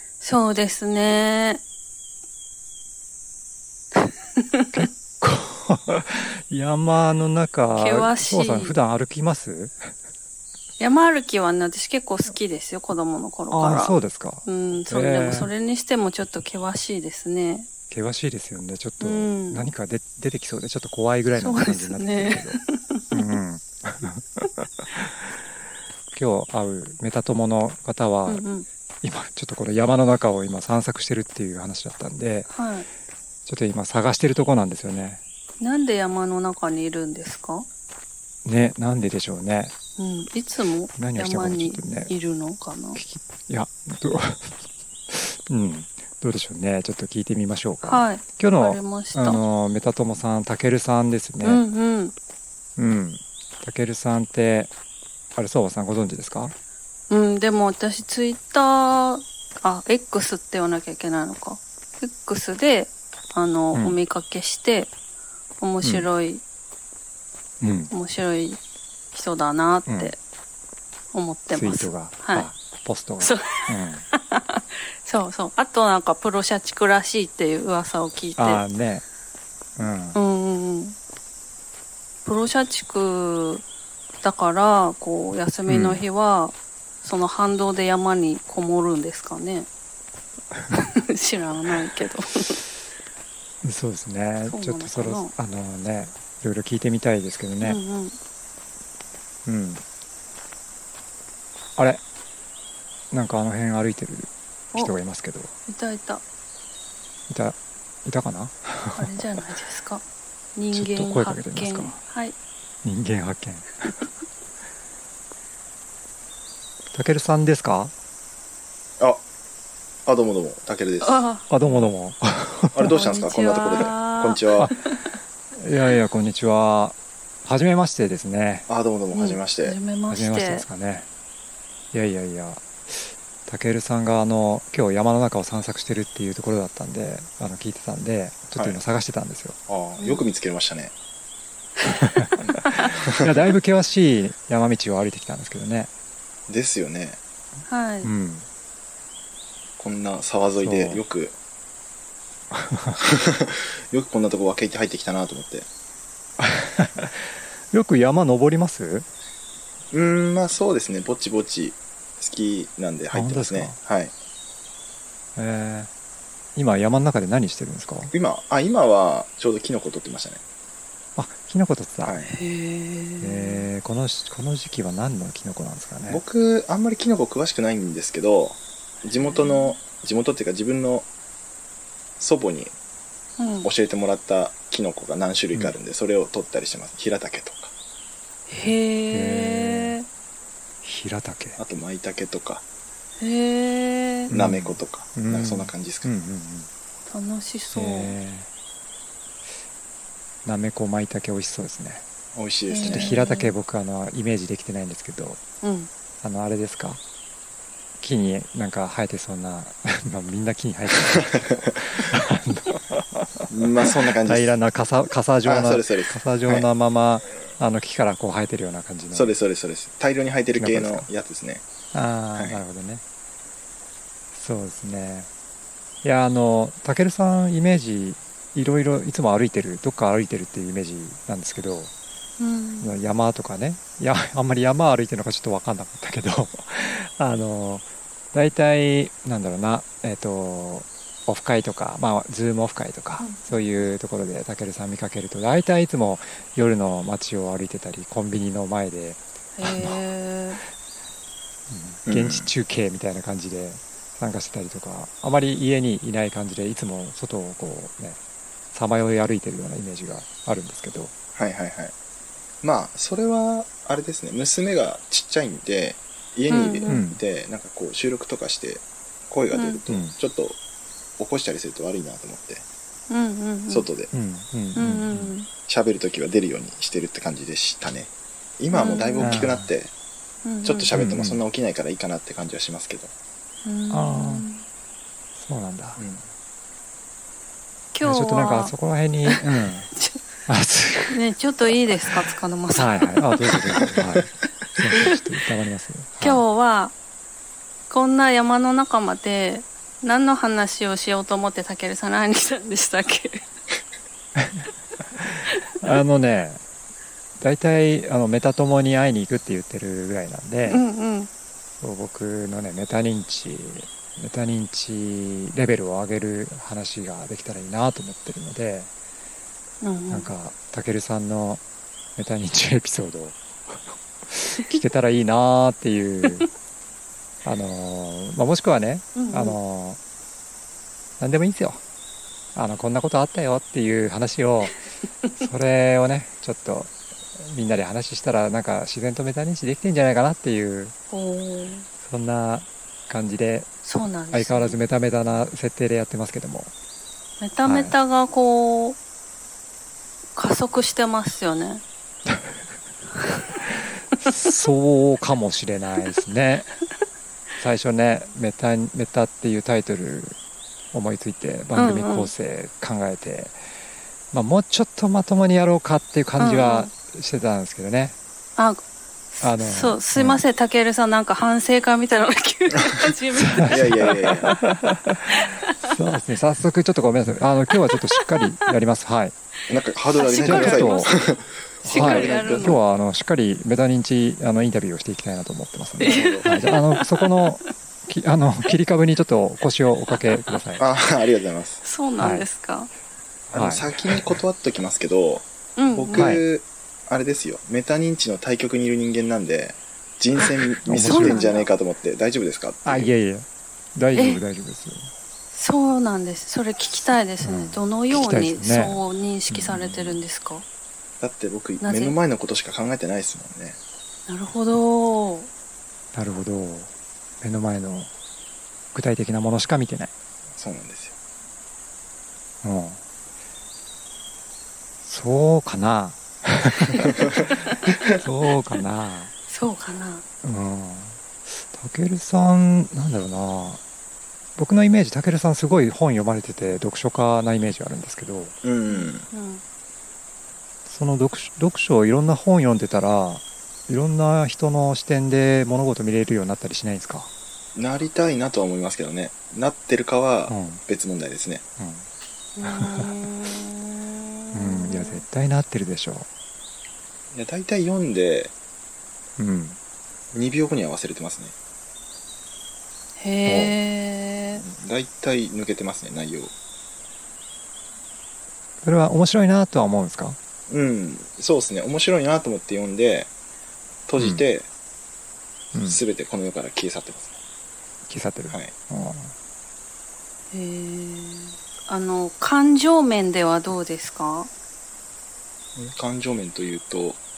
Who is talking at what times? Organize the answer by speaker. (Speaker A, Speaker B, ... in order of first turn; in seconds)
Speaker A: 0.2-1.6, 4.0-4.7, 7.8-8.7, 10.8-17.7, 19.0-19.6, 21.4-23.3, 28.3-28.6, 32.5-32.9, 35.6-37.7, 40.0-43.0, 47.8-49.4, 51.4-52.1, 57.1-64.9, 65.6-66.4, 67.9-68.6, 69.1-70.2, 71.1-72.5, 73.2-78.6, 80.1-81.0, 82.2-83.6, 84.2-89.7, 90.7-92.6, 94.5-95.3, 97.6-98.2, 105.7-106.2, 109.0-110.0, 110.5-112.3, 121.0-121.4, 122.9-125.2, 129.1-130.6, 140.0-140.2, 141.8-142.9, 147.7-148.1, 172.3-173.7, 179.2-179.8, 183.4-183.7, 188.5-190.0, 193.2-194.3, 197.1-198.2, 202.7-203.5, 205.6-205.9, 232.4-232.9, 243.2-243.9, 249.6-250.6, 266.5-267.0, 269.5-269.8, 273.1-273.9, 274.8-275.5, 278.7-279.4, 280.4-280.9, 283.6-284.6, 287.9-288.7, 289.9-290.2, 291.1-293.8, 296.2-296.9, 297.9-303.4, 310.7-311.3, 319.8-320.3, 329.1-329.6, 341.1-341.9, 343.8-344.8, 347.4-349.0, 350.4-351.8, 361.8-362.3, 366.4-366.9, 368.6-374.6, 375.3-375.9, 377.9-378.3, 380.1-381.1, 381.8-382.8, 386.0-387.4, 391.8-392.9, 395.8-396.4, 401.0-401.7, 404.1-404.4, 405.5-410.6, 411.8-412.1, 414.3-415.5, 429.5-430.2, 438.9-439.6, 452.6-455.2, 463.2-464.6, 480.5-484.5
Speaker B: 4.7-9.9, 13.5-15.5, 17.9-22.6, 23.1-25.3, 26.1-28.4, 29.0-32.5, 33.5-35.2, 38.4-39.7, 41.0-42.1, 42.9-44.5, 45.1-51.6, 52.8-54.7, 55.4-56.5, 63.7-64.0, 65.8-66.1, 67.6-67.9, 69.9-70.1, 71.5-74.0, 78.4-79.0, 79.8-80.2, 85.7-86.0, 93.6-97.8, 99.4-99.8, 101.8-102.0, 103.1-105.5, 107.3-109.4, 110.7-112.0, 112.8-113.9, 116.9-117.9, 121.5-123.0, 125.5-128.7, 130.1-131.1, 131.9-139.6, 142.0-145.9, 148.0-148.4, 150.6-151.0, 152.5-153.0, 156.4-159.1, 163.1-163.8, 165.3-165.9, 166.5-168.1, 171.2-172.2, 173.2-176.2, 188.6-189.9, 190.8-191.6, 194.3-196.7, 197.7-198.5, 200.4-202.0, 202.8-205.4, 206.2-207.0, 208.0-219.3, 220.6-221.1, 221.9-223.0, 224.3-225.3, 226.0-231.9, 232.8-249.9, 251.7-258.2, 258.7-261.1, 266.9-267.2, 269.9-270.1, 274.1-275.3, 279.2-279.7, 280.9-281.4, 283.9-284.4, 285.4-286.0, 288.0-289.9, 290.5-291.2, 292.7-296.4, 304.4-306.6, 307.4-310.8, 311.8-318.9, 320.1-321.6, 322.2-326.5, 327.4-330.0, 331.2-331.8, 332.5-334.8, 335.4-340.9, 342.0-343.7, 344.3-346.7, 347.6-347.9, 354.2-356.7, 357.6-360.4, 360.9-363.6, 364.3-368.2, 369.4-370.4, 373.4-379.3, 380.4-381.1, 381.9-390.8, 392.2-392.5, 393.5-394.4, 396.1-396.4, 400.9-401.5, 402.8-405.1, 407.4-410.2, 416.1-418.1, 418.9-420.1, 422.6-423.0, 425.0-427.5, 428.1-429.3, 430.4-433.8, 434.6-438.6, 440.9-447.3, 450.5-450.8, 451.8-452.1, 452.6-453.1, 454.5-456.3, 459.4-459.8, 463.4-463.7, 468.8-470.4, 474.2-474.4, 475.7-476.0, 478.1-479.3
Speaker C: 120.0-121.9, 122.7-124.7, 128.7-129.8, 138.5-138.8, 139.7-140.9, 146.5-147.2, 149.8-151.3, 153.0-155.7, 159.9-164.1, 168.1-170.4, 172.0-172.3, 176.1-181.1, 182.2-182.7, 183.6-187.7, 191.6-192.6, 194.3-196.1, 202.3-203.1, 211.2-211.7, 213.5-214.6, 215.4-216.7, 219.1-221.6, 222.3-222.6, 252.1-252.5, 261.3-261.9, 262.6-270.6, 271.2-272.6, 273.7-274.1, 275.7-279.9, 280.6-283.1, 286.0-286.2, 373.7-374.5, 379.7-382.8, 386.0-386.6, 390.8-391.8, 393.5-403.1, 411.2-413.8, 420.5-421.1, 438.6-439.3, 447.7-451.6, 457.3-458.5, 460.3-461.5, 464.6-466.5, 470.7-473.3, 474.1-474.7, 475.8-477.4, 485.8-487.2